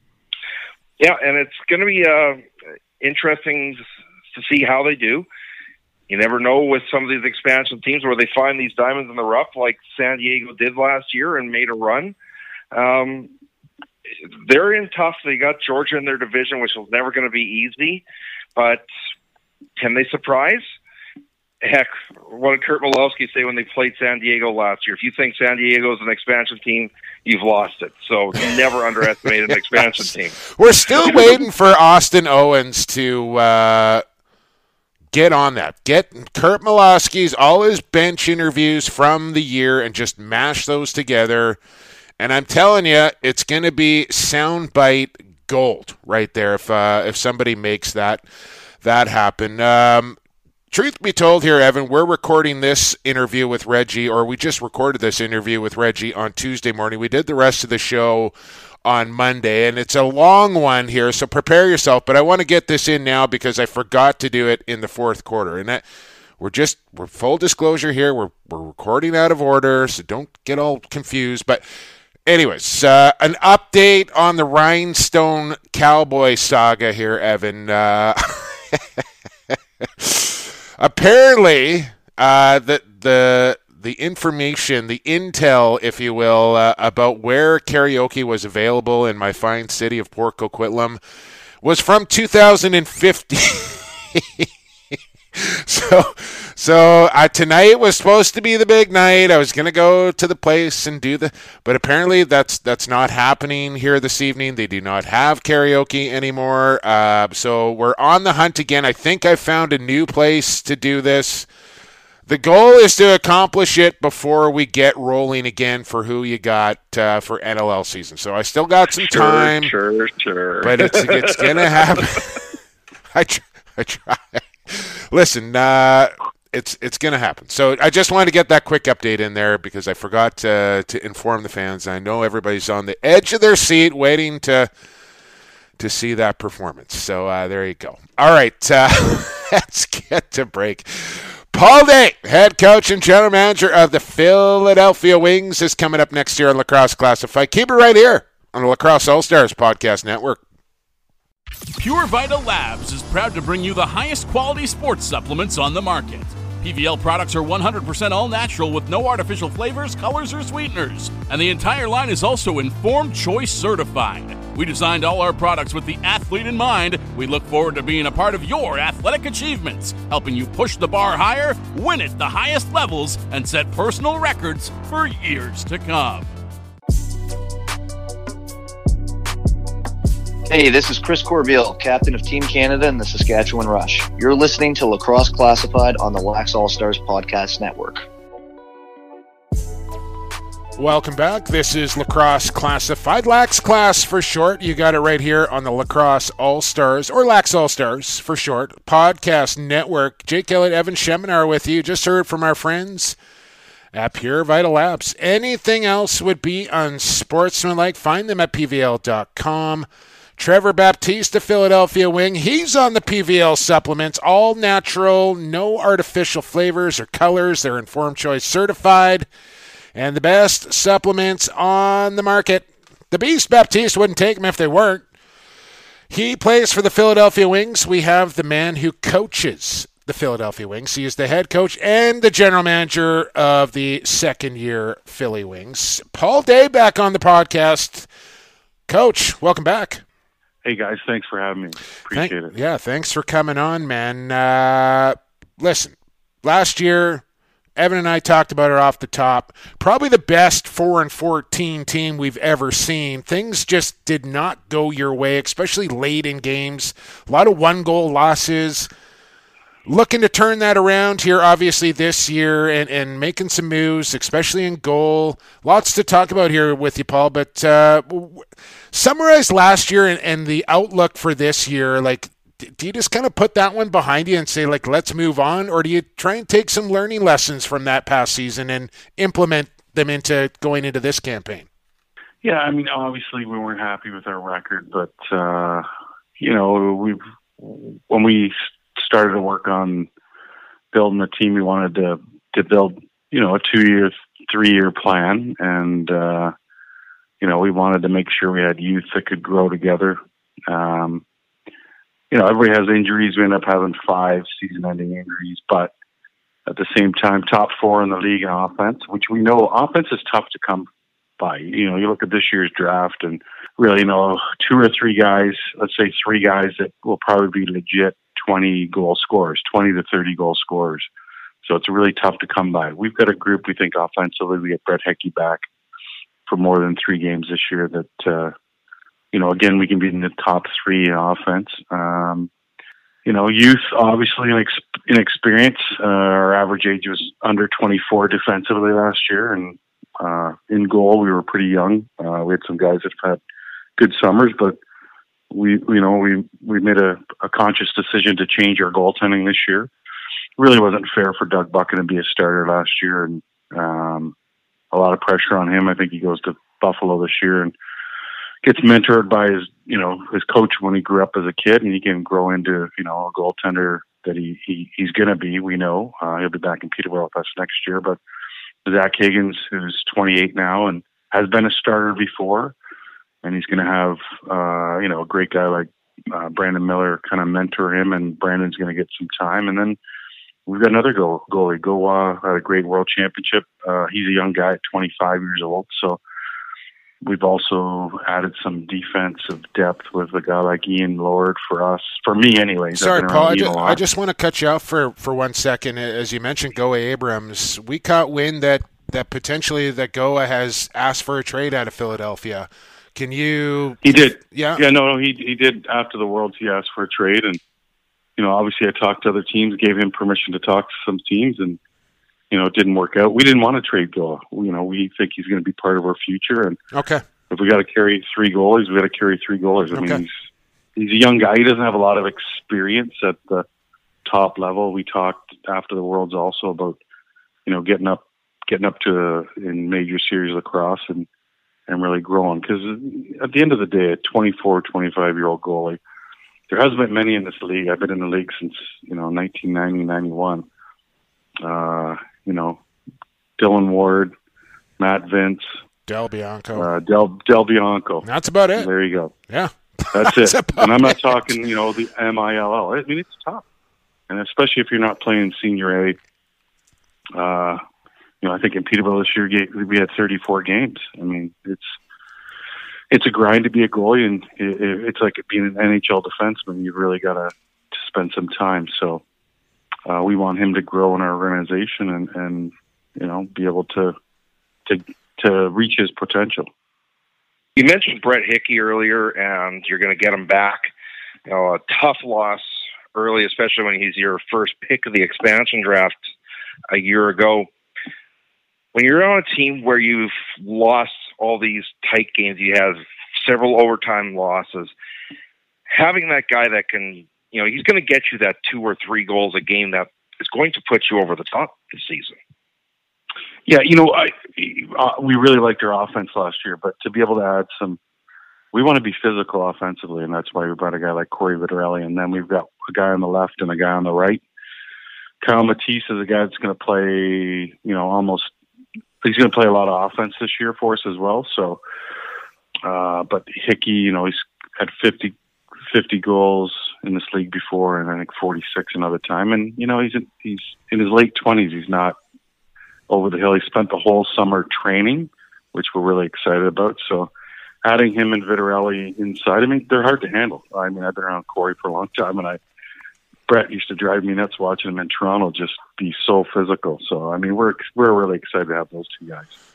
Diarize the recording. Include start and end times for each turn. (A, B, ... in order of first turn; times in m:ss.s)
0:01.0-0:02.4 A
0:03.0-0:03.8 A
0:04.3-0:05.3 A
0:06.1-0:12.1 A
0:12.7-0:13.3 A
0:14.4-0:18.0 A
0:18.6-0:18.8 A
0:19.8-0:20.6 A
0:21.6-0:30.4 A
0:30.5-0:34.0 B
0:35.1-0:41.6 B
0:42.2-0:48.2 B
0:48.8-0:50.2 B
0:50.7-0:58.3 B
0:58.8-1:05.8 B
1:06.4-1:11.6 B
1:12.3-1:19.0 B
1:19.8-1:31.0 B
1:31.6-1:34.5 B
1:35.3-1:51.5 B
1:52.3-1:59.7 B
1:59.1-2:01.8 A
2:00.6-2:02.4 B
2:03.1-2:14.7 B
2:15.8-2:30.4 B
2:31.8-2:56.3 C
3:00.5-3:08.0 D
3:10.8-3:23.2 B
3:23.9-3:39.3 B
3:40.0-3:45.0 B
3:46.1-3:58.1 B
3:58.9-4:00.0 B
4:00.6-4:02.5 E
4:02.1-4:07.2 B
4:07.8-4:18.9 B
4:19.9-4:41.6 B
4:42.4-4:45.9 E
4:46.4-4:50.1 E
4:50.9-4:56.5 E
4:57.4-5:01.2 E
5:02.3-5:05.9 E
5:06.6-5:10.9 E
5:11.4-5:21.1 E
5:21.6-5:25.6 E
5:26.5-5:28.5 E
5:29.3-5:32.5 E
5:33.2-5:43.4 E
5:44.0-5:44.8 E
5:45.5-5:49.9 E
5:50.6-5:54.3 E
5:54.9-5:57.7 E
5:58.6-6:08.2 E
6:08.8-6:12.7 E
6:13.4-6:20.0 E
6:20.6-6:26.2 E
6:27.2-6:34.0 E
6:32.9-6:44.8 B
6:44.0-6:47.6 E
6:48.4-6:51.8 E
6:52.5-6:56.8 E
6:56.9-6:57.2 B
6:57.5-7:00.3 E
6:59.9-7:00.2 B
7:01.0-7:03.6 E
7:04.2-7:07.0 E
7:07.6-7:11.3 E
7:11.9-7:16.0 E
7:16.7-7:20.6 E
7:21.6-7:22.8 E
7:23.6-7:24.3 E
7:25.0-7:25.6 E
7:26.1-7:26.9 B
7:26.7-7:29.3 E
7:28.2-7:28.9 B
7:29.5-7:31.5 B
7:30.1-7:33.6 E
7:34.3-7:36.2 E
7:37.3-7:37.8 E
7:38.4-7:42.0 E
7:43.1-7:49.2 E
7:50.0-7:54.1 E
7:54.9-7:56.7 E
7:57.8-8:00.9 A
8:01.5-8:06.1 A
8:06.9-8:07.7 A
8:08.9-8:14.9 A
8:15.9-8:22.4 A
8:23.7-8:28.0 E
8:28.7-8:34.4 E
8:35.4-8:38.5 E
8:39.2-8:41.8 E
8:42.8-8:45.3 E
8:45.9-8:52.2 E
8:53.1-8:57.3 E
8:57.8-9:02.6 E
9:03.5-9:09.5 E